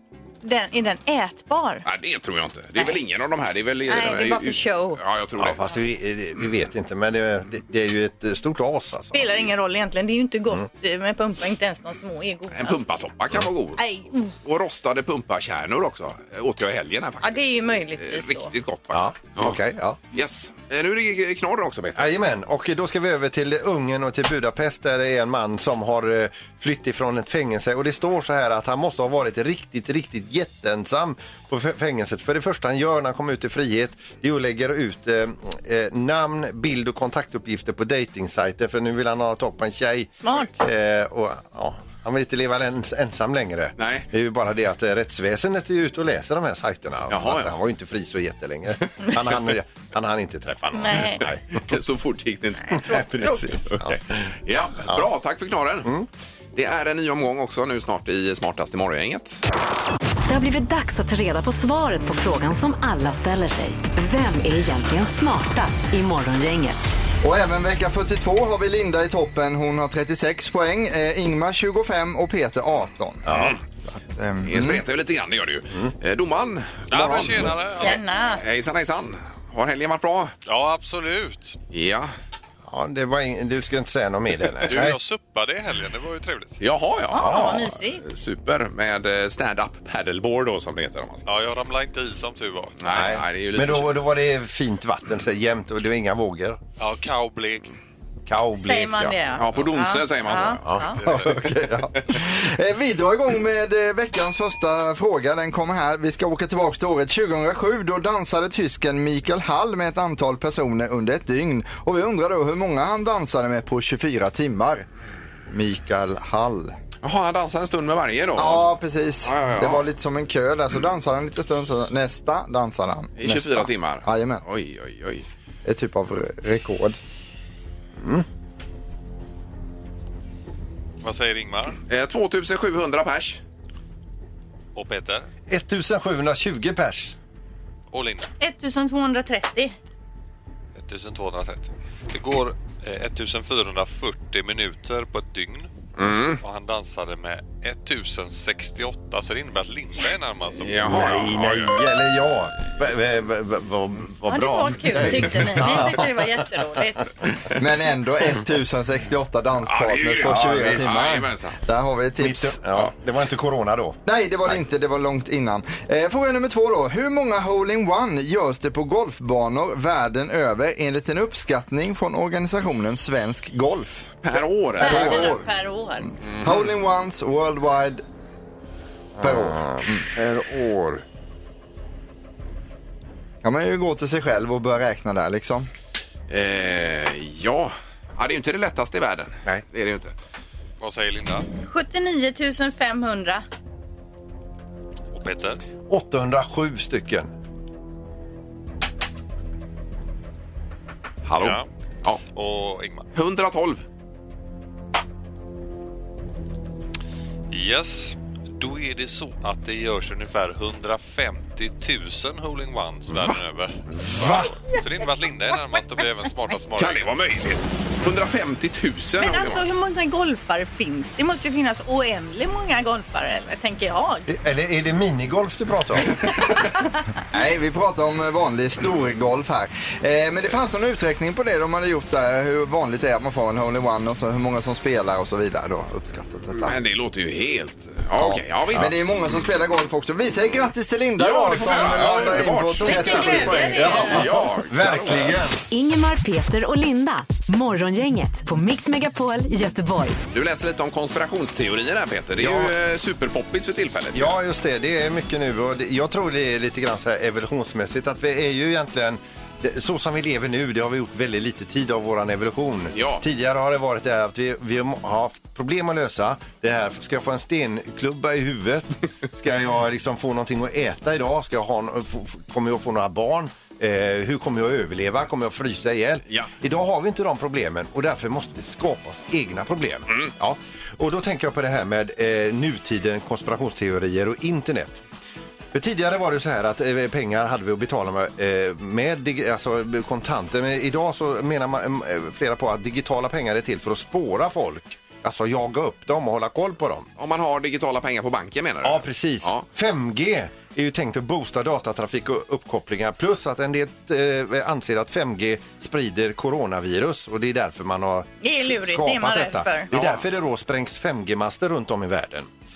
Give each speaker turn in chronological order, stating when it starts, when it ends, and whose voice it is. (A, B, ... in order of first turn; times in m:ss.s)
0:00.4-0:01.8 A
0:01.8-0:05.6 B
0:03.9-0:05.0 A
0:05.4-0:09.4 C
0:09.1-0:12.8 A
0:12.5-0:13.8 B
0:13.8-0:14.3 A
0:14.4-0:19.6 B
0:17.2-0:18.5 A
0:18.9-0:20.0 C
0:20.1-0:22.1 B
0:21.9-0:51.4 C
0:40.2-0:40.5 A
0:43.8-0:44.1 B
0:47.1-0:47.5 B
0:50.7-0:51.2 A
0:51.2-0:55.9 B
0:52.7-0:53.0 A
0:52.7-0:54.0 C
0:56.5-0:59.4 B
1:00.3-1:06.9 D
1:07.2-1:13.3 E
1:13.2-1:13.6 C
1:13.3-1:13.6 B
1:13.9-1:14.8 E
1:14.4-1:20.3 B
1:16.9-1:18.0 F
1:17.8-1:18.4 A
1:20.5-1:21.6 F
1:21.7-1:22.1 B
1:22.6-1:25.0 C
1:24.6-1:26.6 F
1:26.6-1:31.2 B
1:27.1-1:28.0 A
1:27.2-1:27.6 C
1:31.2-1:32.9 F
1:32.8-1:34.0 B
1:32.9-1:36.6 C
1:36.8-1:37.7 F
1:38.3-1:39.2 C
1:38.6-1:41.0 A
1:39.4-1:40.7 B
1:41.0-1:41.4 F
1:41.0-1:54.9 E
1:55.5-1:56.7 E
1:57.0-1:58.7 B
1:58.4-2:04.4 E
1:59.2-1:59.8 B
2:03.2-2:05.3 B
2:05.6-2:07.0 E
2:08.0-2:08.2 C
2:11.0-2:11.8 F
2:11.9-2:13.4 B
2:14.7-2:15.3 F
2:15.5-2:17.2 C
2:17.9-2:18.3 F
2:18.4-2:19.7 A
2:20.7-2:25.7 F
2:26.0-2:26.4 B
2:26.4-2:31.1 F
2:30.6-2:31.7 B
2:30.9-2:36.3 C
2:34.3-2:37.1 A
2:37.6-2:42.6 E
2:39.6-2:41.6 B
2:40.2-2:41.0 C
2:42.2-2:44.0 C
2:44.0-2:54.1 E
2:54.2-2:55.4 B
2:54.8-2:55.4 E
2:54.8-2:56.1 A
2:56.2-2:56.6 B
2:56.4-2:58.0 E
2:59.2-3:01.0 C
2:59.2-3:00.1 E
3:03.4-3:05.7 E
3:06.3-3:10.1 B
3:10.8-3:11.4 F
3:11.6-3:13.4 A
3:15.1-3:15.6 F
3:15.9-3:17.3 C
3:21.2-3:22.2 B
3:21.4-3:21.7 F
3:22.3-3:23.0 F
3:23.1-3:23.8 B
3:27.5-3:37.1 F
3:36.8-3:39.7 B
3:39.2-3:44.3 A
3:44.3-3:46.2 C
3:47.3-3:56.8 E
3:56.6-3:58.9 B
3:58.2-4:04.3 E
4:01.2-4:05.4 B
4:01.9-4:05.6 C
4:02.8-4:04.2 A
4:05.7-4:10.2 D
4:10.3-4:14.3 B
4:12.4-4:12.7 C
4:14.1-4:45.0 C
4:22.9-4:23.2 B
4:45.7-4:57.1 C
4:57.2-4:59.6 B
4:58.8-5:12.5 C
5:08.4-5:09.9 A